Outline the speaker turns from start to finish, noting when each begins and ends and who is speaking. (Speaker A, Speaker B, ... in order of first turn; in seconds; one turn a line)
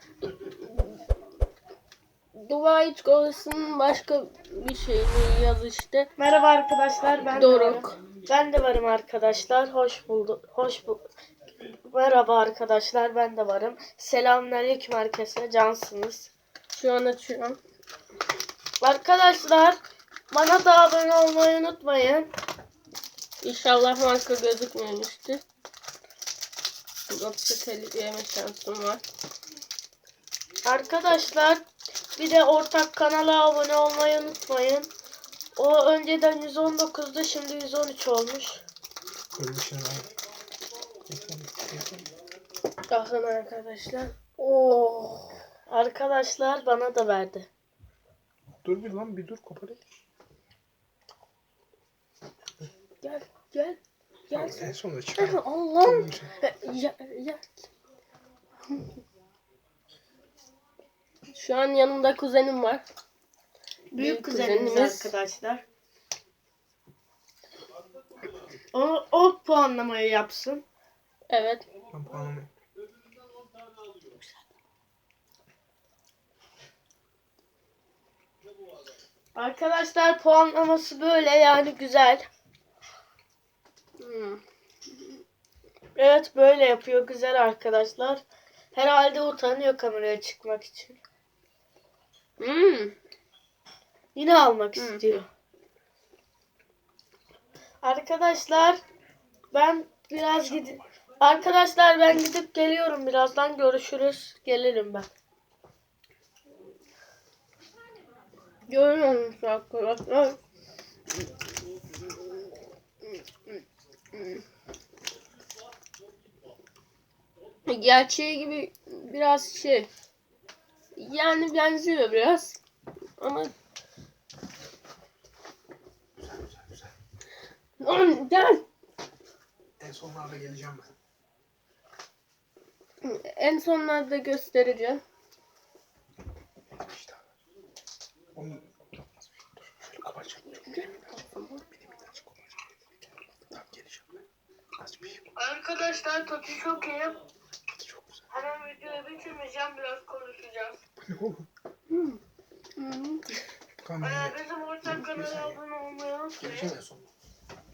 Speaker A: 0.4-1.0
Speaker A: 2.3-6.1
Speaker B: 6.2-11.1
Speaker A: 7.3-8.0
Speaker B: 11.6-16.3
Speaker A: 16.7-17.6
Speaker B: 18.8-19.8
Speaker B: 20.3-22.3
Speaker A: 23.4-25.4
Speaker A: 27.1-29.0
Speaker B: 30.6-31.6
Speaker B: 32.2-34.9
Speaker B: 35.5-38.6
Speaker C: 39.3-40.1
Speaker C: 41.1-42.1
Speaker A: 42.9-45.3
Speaker B: 45.7-47.5
Speaker C: 48.6-49.8
Speaker A: 53.0-57.4
Speaker C: 54.3-56.4
Speaker A: 61.3-62.8
Speaker A: 63.9-65.1
Speaker B: 63.9-65.6
Speaker B: 68.7-70.6
Speaker A: 71.3-71.7
Speaker C: 71.9-72.5
Speaker B: 79.3-82.2
Speaker A: 84.0-84.4
Speaker B: 86.0-91.0
Speaker A: 92.4-93.0
Speaker B: 94.1-95.3
Speaker A: 94.8-95.1
Speaker B: 97.8-98.8
Speaker B: 99.5-105.1
Speaker A: 108.7-110.4
Speaker A: 113.1-113.5
Speaker A: 114.1-114.4
Speaker A: 117.7-119.9
Speaker A: 121.0-122.6
Speaker A: 123.2-123.5
Speaker C: 126.2-126.9
Speaker A: 127.8-128.6
Speaker C: 129.8-130.9
Speaker A: 133.0-135.0
Speaker C: 136.8-137.2
Speaker C: 138.3-138.6
Speaker C: 139.7-140.8
Speaker A: 140.7-141.6
Speaker C: 141.8-142.4
Speaker C: 143.5-144.2
Speaker C: 144.8-145.2
Speaker B: 145.3-147.2
Speaker C: 147.7-148.2
Speaker B: 148.3-150.8
Speaker C: 151.1-151.5
Speaker A: 151.9-152.2
Speaker A: 152.8-153.2
Speaker C: 153.8-154.4
Speaker B: 154.0-156.7
Speaker C: 154.9-155.6
Speaker C: 156.4-157.1